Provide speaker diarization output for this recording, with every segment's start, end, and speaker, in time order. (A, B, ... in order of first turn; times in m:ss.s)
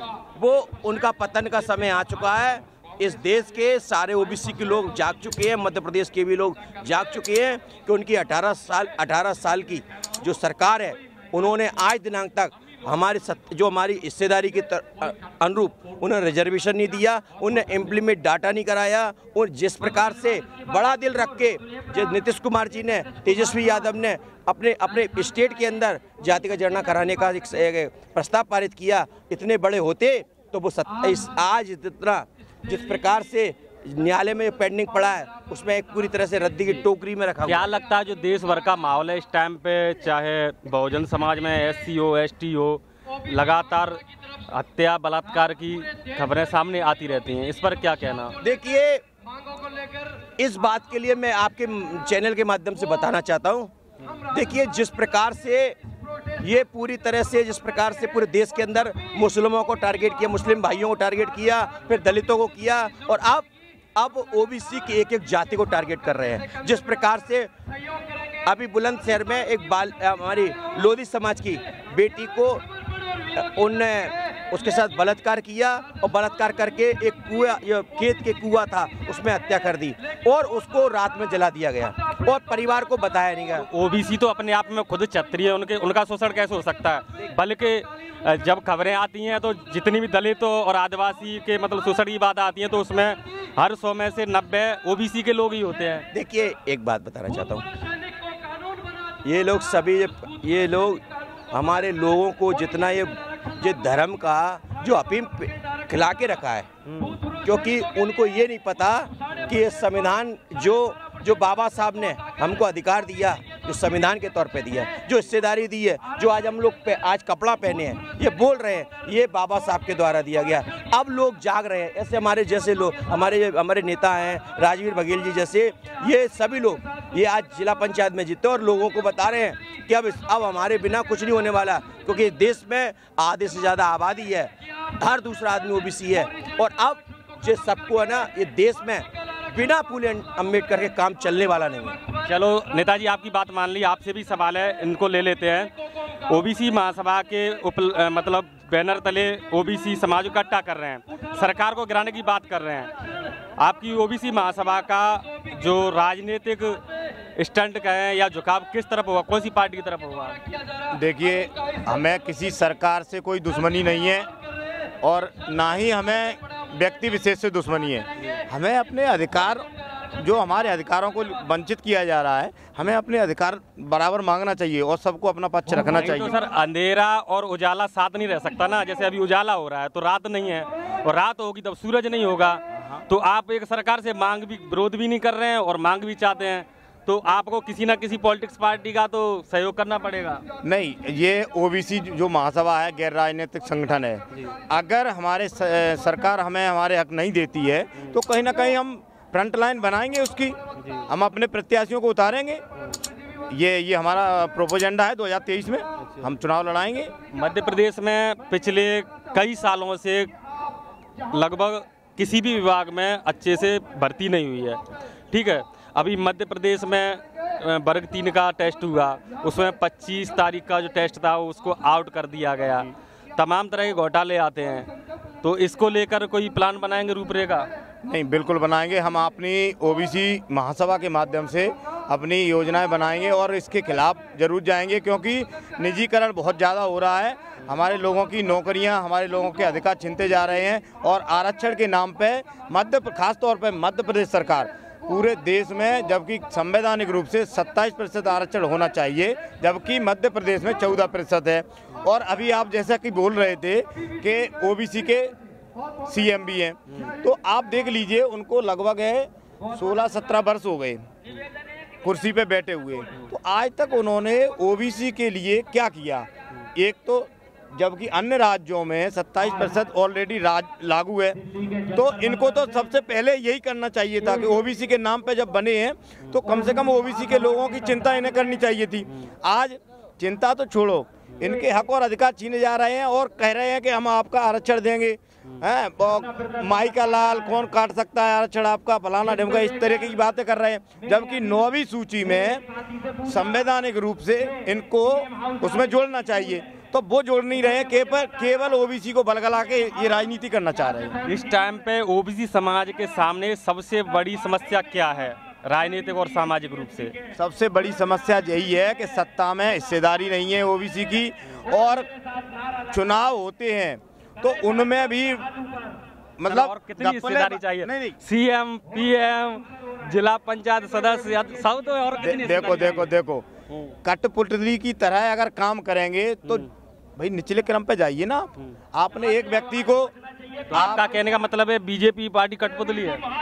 0:00.3-0:37.7 A
0:37.4-0:48.4 B
0:48.4-0:49.0 A
0:50.4-0:53.7 A
0:54.2-0:55.8 A
0:56.4-1:07.5 A
1:08.4-1:12.6 A
1:13.3-1:23.7 A
1:23.6-1:36.1 B
1:36.1-1:37.7 A
1:39.2-1:46.7 A
1:46.8-1:47.2 B
1:47.2-2:22.0 A
2:22.2-2:25.7 B
2:26.3-2:32.9 B
2:33.6-2:36.8 B
2:37.4-2:40.4 B
2:40.9-2:44.3 C
2:45.0-2:49.6 C
2:50.2-2:56.3 C
2:55.8-3:10.4 B
3:10.6-3:20.6 C
3:21.1-3:22.6 C
3:23.5-3:27.1 C
3:27.3-3:30.3 B
3:31.3-3:34.8 B
3:35.3-3:44.9 B
3:45.4-3:47.7 B
3:48.0-4:15.3 C
4:16.0-4:21.0 C
4:22.0-4:52.6 C
4:53.2-5:01.2 C
5:01.2-5:07.2 B
5:07.3-5:12.1 C
5:12.9-5:15.5 C
5:16.4-5:18.2 C
5:16.5-5:23.1 B
5:22.2-5:23.5 C
5:24.0-5:30.1 C
5:30.7-5:33.2 B
5:30.7-5:31.1 C